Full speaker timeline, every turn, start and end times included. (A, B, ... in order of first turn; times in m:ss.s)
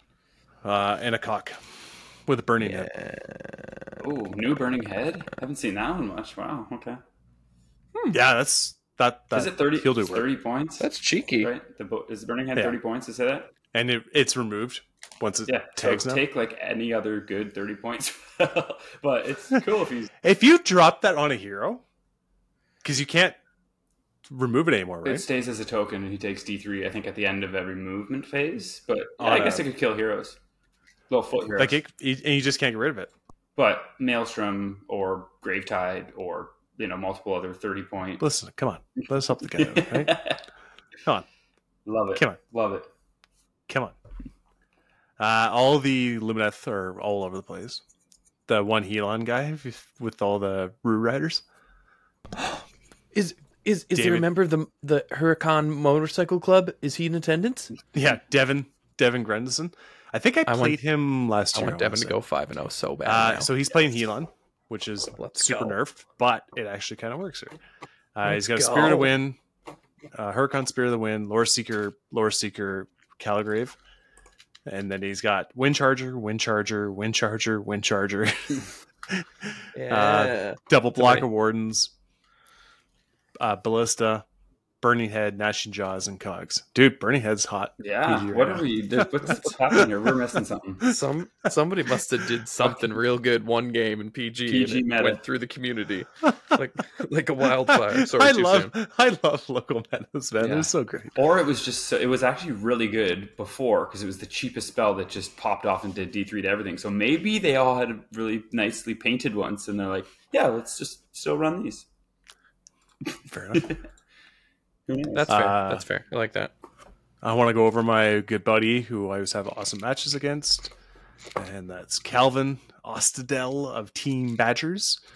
0:00.6-0:01.6 A
0:02.3-0:02.9 A
0:02.6-0:03.7 B
0:04.0-0:07.0 C
0:08.0-0:08.2 B
0:08.1-0:10.3 A
0:09.3-0:10.9 C
0:10.8-0:11.5 B
0:11.4-0:13.5 C
0:13.7-0:16.2 A
0:15.5-0:20.1 C
0:20.2-0:21.8 A
0:22.8-0:23.4 A
0:24.3-0:25.3 A
0:25.0-0:30.4 C
0:29.2-0:29.7 A
0:31.1-0:31.8 C
0:31.6-0:33.1 A
0:33.6-0:38.3 C
0:38.2-0:40.3 A
0:39.0-0:40.4 C
0:41.9-0:42.9 C
0:43.7-0:44.0 A
0:45.2-0:47.8 A
0:48.5-0:51.4 A
0:53.1-0:57.7 B
0:53.9-0:54.3 A
0:57.9-1:02.2 A
1:00.5-1:00.9 B
1:01.5-1:03.5 B
1:03.0-1:07.6 A
1:05.2-1:05.8 B
1:08.2-1:09.4 A
1:08.2-1:09.2 B
1:10.1-1:13.8 A
1:14.7-1:21.9 A
1:19.8-1:21.3 B
1:23.4-1:24.2 A
1:24.8-1:29.1 A
1:27.8-1:30.9 C
1:30.8-1:38.7 B
1:34.5-1:35.2 C
1:37.4-1:41.2 A
1:40.4-1:51.9 C
1:53.3-1:53.7 A
1:53.5-1:53.8 C
1:54.9-1:55.3 C
1:55.1-1:56.5 B
1:55.3-1:55.9 A
1:57.2-2:00.7 A
2:01.4-2:05.0 A